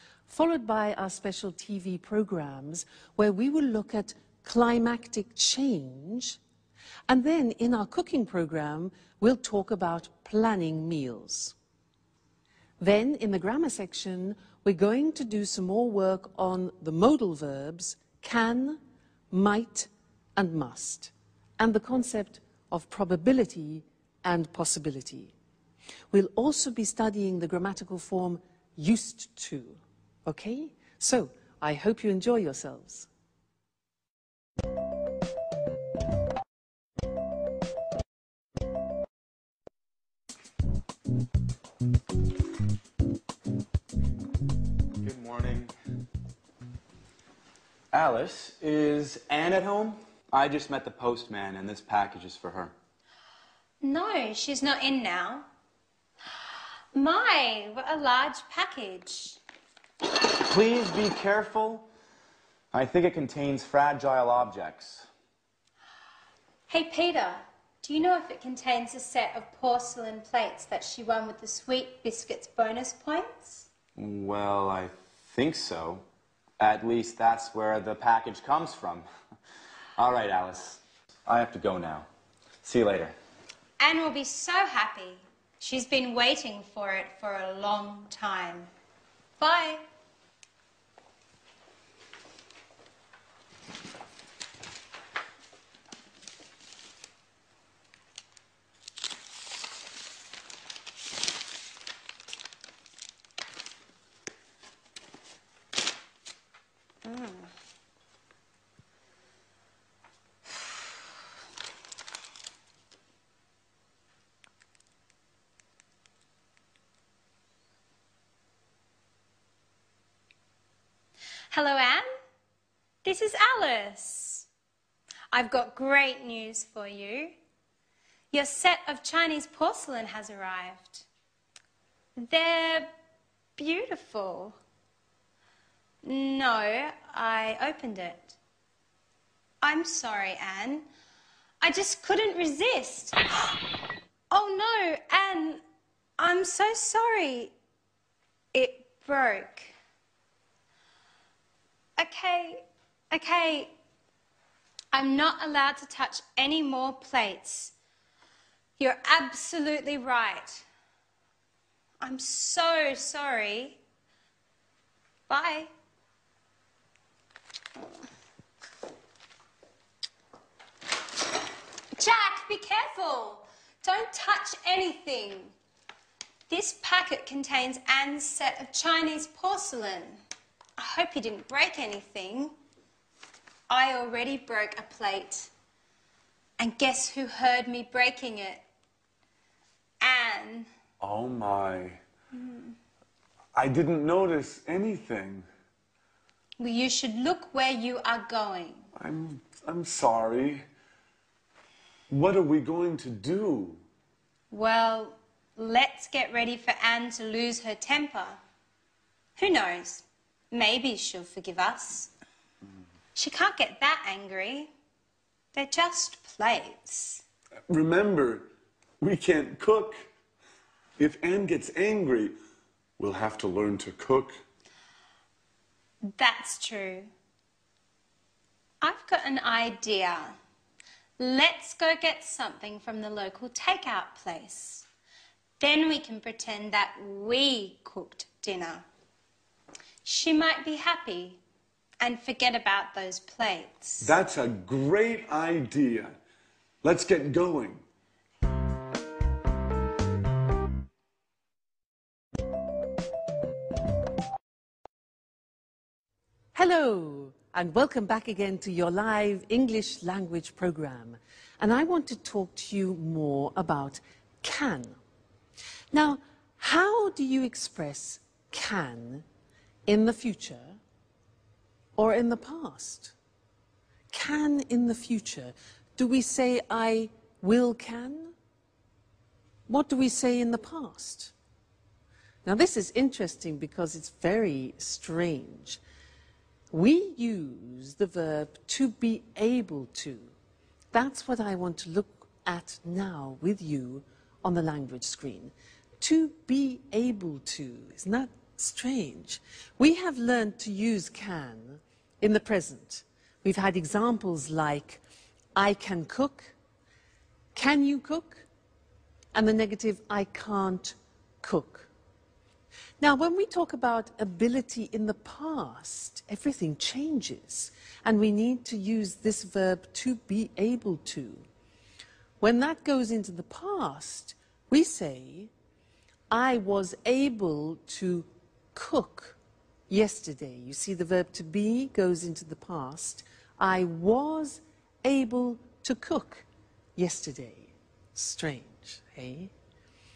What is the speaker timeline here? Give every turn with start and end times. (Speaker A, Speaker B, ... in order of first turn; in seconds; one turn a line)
Speaker A: 0.3-6.4
Speaker A: 7.1-11.5
Speaker A: 12.8-18.8
Speaker A: 19.3-25.3
Speaker A: 26.1-33.1
Speaker B: 45.0-45.7
Speaker B: 47.9-52.7
Speaker C: 53.8-55.5
Speaker C: 56.9-59.4
Speaker B: 60.0-61.9
Speaker B: 62.7-65.1
Speaker C: 66.7-73.7
Speaker B: 74.0-76.0
Speaker B: 76.6-79.1
Speaker B: 80.0-82.1
Speaker B: 82.6-83.1
Speaker C: 83.8-88.7
Speaker C: 89.4-89.8
Speaker C: 107.0-107.5
Speaker C: 121.5-122.1
Speaker C: 123.0-124.5
Speaker C: 125.3-127.3
Speaker C: 128.3-131.1
Speaker C: 132.2-132.9
Speaker C: 133.6-134.6
Speaker C: 136.0-138.3
Speaker C: 139.6-140.9
Speaker C: 141.6-143.2
Speaker C: 144.3-145.6
Speaker C: 146.2-147.5
Speaker C: 148.5-149.7
Speaker C: 152.0-153.7
Speaker C: 154.9-157.7
Speaker C: 158.8-160.7
Speaker C: 162.0-163.8
Speaker C: 165.3-165.7
Speaker C: 171.9-175.5
Speaker C: 176.5-180.2
Speaker C: 180.8-182.6
Speaker C: 183.7-185.5
Speaker C: 186.6-188.6
Speaker C: 190.0-190.7
Speaker D: 191.0-192.0
Speaker C: 192.3-192.7
Speaker D: 193.5-195.5
Speaker C: 196.6-198.9
Speaker D: 198.9-200.6
Speaker D: 202.1-203.8
Speaker C: 204.5-208.4
Speaker C: 209.4-212.1
Speaker C: 213.1-214.7
Speaker C: 215.5-217.2
Speaker D: 217.7-218.5
Speaker D: 219.0-220.1
Speaker D: 221.0-222.3
Speaker D: 223.0-224.4
Speaker C: 226.0-227.1
Speaker C: 228.8-230.4
Speaker C: 231.2-234.8
Speaker C: 235.6-238.8
Speaker C: 240.0-241.4
Speaker C: 242.0-244.1
Speaker D: 244.0-246.2
Speaker D: 246.8-247.8
Speaker A: 256.5-265.0
Speaker A: 265.9-269.2
Speaker A: 269.9-270.8
Speaker A: 272.0-273.1
Speaker A: 274.1-278.3
Speaker A: 279.7-281.3
Speaker A: 282.4-285.8
Speaker A: 286.7-290.3
Speaker A: 290.9-305.0
Speaker A: 305.6-306.5
Speaker A: 307.5-308.4
Speaker A: 309.3-311.9
Speaker A: 313.0-321.4
Speaker A: 322.4-325.5
Speaker A: 326.3-329.4
Speaker A: 329.9-336.4
Speaker A: 337.0-339.5